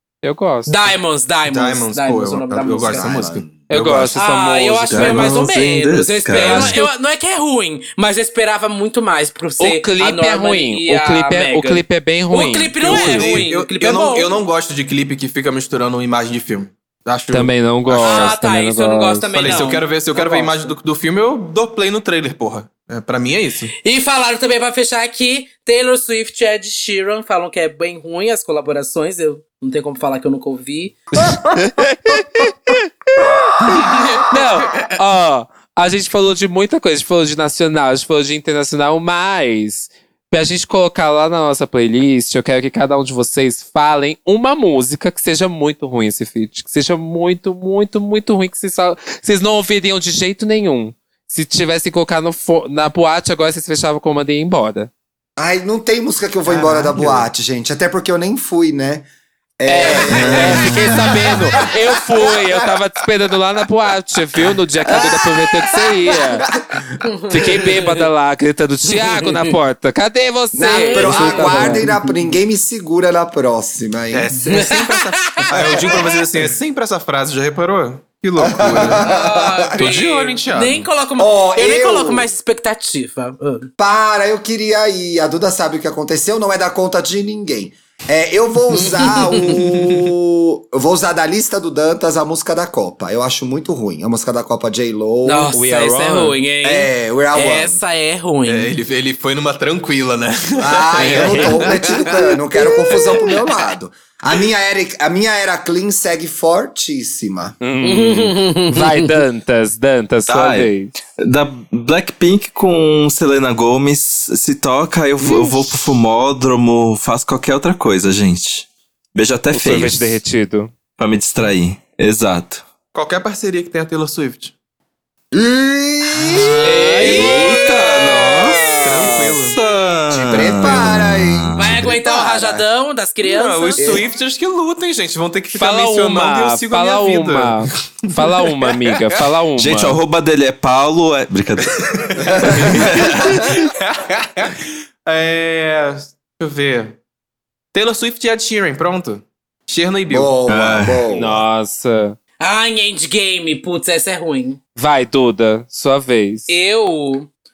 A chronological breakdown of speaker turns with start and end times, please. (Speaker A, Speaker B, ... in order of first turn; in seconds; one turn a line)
Speaker A: 0.2-0.8
Speaker B: 0.7-3.1
Speaker C: 1.4-4.2
Speaker D: 2.7-3.5
Speaker A: 3.7-5.4
Speaker B: 4.1-14.4
Speaker E: 4.9-6.8
Speaker A: 6.3-6.9
Speaker A: 9.6-13.3
Speaker C: 12.8-18.4
Speaker A: 17.3-19.7
Speaker B: 18.0-20.7
Speaker C: 19.4-23.7
Speaker B: 23.8-31.0
Speaker A: 31.2-32.9
Speaker A: 33.7-54.9
Speaker B: 33.8-34.2
Speaker D: 55.4-59.1
Speaker C: 56.5-57.3
Speaker D: 59.6-61.7
Speaker A: 59.7-66.5
Speaker E: 60.0-61.1
Speaker C: 60.3-61.0
Speaker D: 64.9-65.2
Speaker D: 65.8-66.1
Speaker B: 67.0-68.0
Speaker A: 67.3-71.9
Speaker B: 68.9-69.5
Speaker D: 70.5-74.3
Speaker B: 70.6-72.1
Speaker C: 74.1-80.9
Speaker B: 74.5-76.1
Speaker D: 75.6-76.0
Speaker D: 78.4-79.7
Speaker B: 78.8-83.7
Speaker D: 81.2-82.3
Speaker D: 83.8-95.5
Speaker B: 88.7-89.6
Speaker B: 95.2-98.7
Speaker A: 95.5-96.4
Speaker D: 96.6-97.8
Speaker C: 98.4-102.3
Speaker D: 100.6-107.5
Speaker A: 101.0-101.8
Speaker C: 102.9-103.3
Speaker A: 107.6-110.9
Speaker B: 107.8-109.1
Speaker E: 110.3-120.2
Speaker A: 119.5-120.7
Speaker E: 121.0-122.6
Speaker C: 122.9-124.5
Speaker D: 125.3-127.2
Speaker B: 126.6-128.8
Speaker A: 126.6-129.4
Speaker E: 127.0-131.9
Speaker C: 128.8-129.6
Speaker C: 130.1-130.9
Speaker D: 130.2-132.6
Speaker B: 131.6-134.0
Speaker C: 133.2-139.2
Speaker D: 133.8-134.1
Speaker A: 135.5-140.0
Speaker E: 139.6-143.5
Speaker C: 141.8-147.0
Speaker D: 142.3-143.5
Speaker C: 147.7-150.4
Speaker D: 150.1-151.4
Speaker E: 150.5-151.0
Speaker A: 151.1-152.2
Speaker B: 152.4-154.6
Speaker A: 154.8-156.5
Speaker B: 156.5-157.3